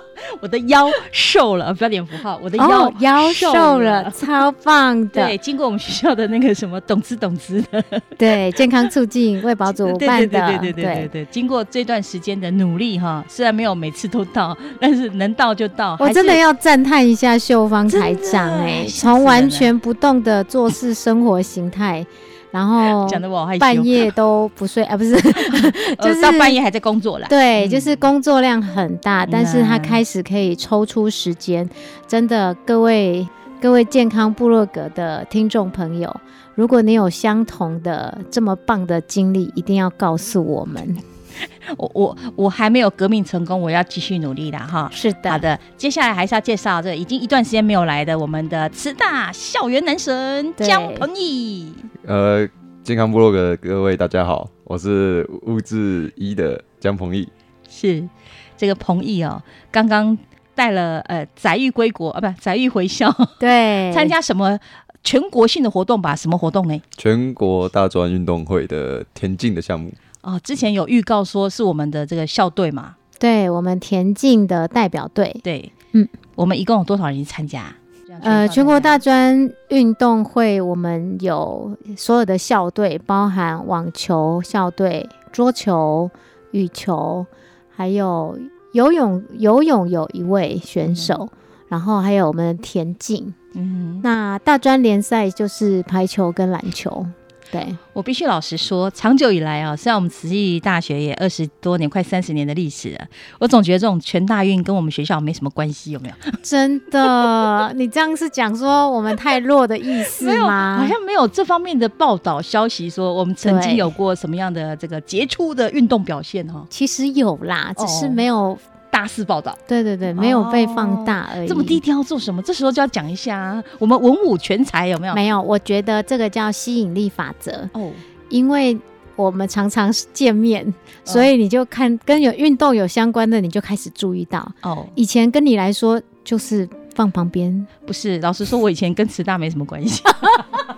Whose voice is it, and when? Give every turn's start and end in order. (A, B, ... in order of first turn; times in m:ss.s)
0:00.2-0:04.2 A
0:02.6-0:05.4 B
0:05.1-0:08.1 A
0:08.2-0:11.1 B
0:09.7-0:16.4 A
0:16.0-0:26.6 B
0:17.9-0:19.7 A
0:22.9-0:24.1 A
0:25.4-0:28.0 A
0:27.3-0:41.0 B
0:29.3-0:30.0 A
0:41.6-0:51.9 A
0:44.9-0:45.4 B
0:50.6-0:51.1 B
0:52.0-0:57.3 C
0:57.7-1:06.8 A
1:03.4-1:04.1 B
1:07.0-1:10.0 C
1:10.2-1:13.0 A
1:13.2-1:16.1 B
1:15.4-1:15.7 A
1:16.4-1:19.0 A
1:18.2-1:33.4 B
1:30.9-1:31.2 A
1:33.6-1:34.1 A
1:34.0-1:37.8 B
1:37.9-1:46.4 A
1:46.4-1:51.0 B
1:50.0-1:56.7 A
1:53.4-1:53.9 B
1:56.7-1:58.6 B
1:57.8-1:58.2 A
1:58.9-1:59.6 A
1:59.7-2:01.8 B
2:00.1-2:05.2 A
2:05.1-2:07.7 B
2:07.7-2:08.0 A
2:08.3-2:17.7 B
2:11.0-2:11.3 A
2:14.6-2:15.0 A
2:17.9-2:20.4 A